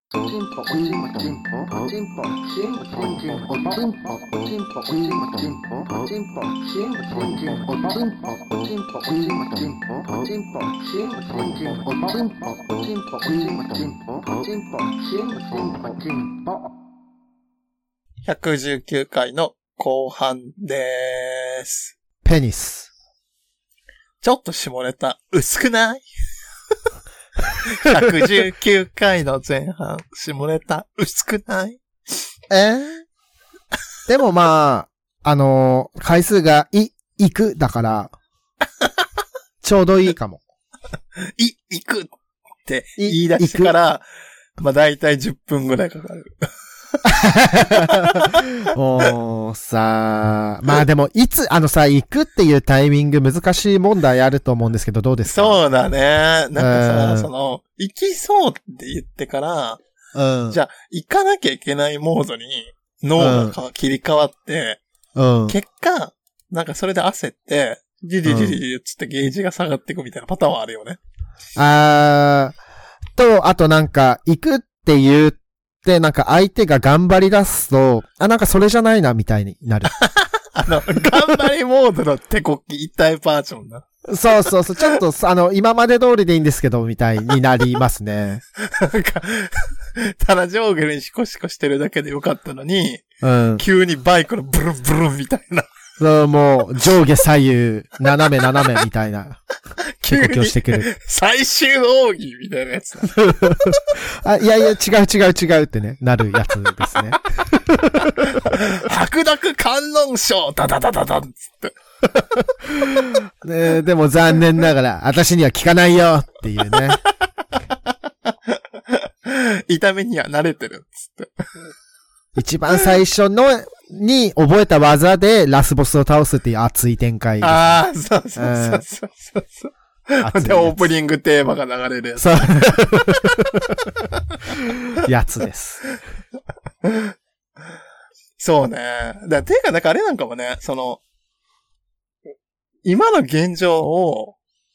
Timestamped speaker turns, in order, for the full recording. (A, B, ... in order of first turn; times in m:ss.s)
0:00.1-0:16.5 A
0:18.2-0:21.9 B
0:22.2-0:22.9 C
0:24.2-0:26.0 B
0:27.6-0:31.8 B
0:32.5-0:33.0 C
0:34.1-0:38.1 C
0:39.6-0:40.4 C
0:41.4-0:42.1 B
0:42.6-0:44.0 B
0:43.0-0:43.7 C
0:44.6-0:46.3 B
0:47.0-0:55.6 C
0:47.7-0:48.4 B
0:55.2-0:59.8 B
0:56.6-0:57.3 C
1:00.1-1:00.6 C
1:00.5-1:04.8 B
1:03.2-1:03.5 C
1:05.2-1:05.6 C
1:05.5-1:11.0 B
1:08.2-1:08.6 C
1:11.6-1:12.6 C
1:13.1-1:19.9 C
1:20.0-1:23.8 B
1:24.1-1:28.4 C
1:28.6-1:35.6 B
1:33.2-1:33.6 C
1:36.0-1:39.4 C
1:40.0-1:43.8 B
1:40.1-1:40.9 C
1:43.1-1:48.4 C
1:48.3-1:51.8 B
1:52.8-1:57.0 C
1:58.9-2:01.4 B
2:02.4-2:07.8 C
2:07.4-2:13.4 B
2:08.4-2:08.8 C
2:10.2-2:10.9 C
2:12.2-2:13.9 C
2:15.0-2:15.8 C
2:16.8-2:17.1 B
2:18.4-2:21.0 B
2:22.8-2:24.4 B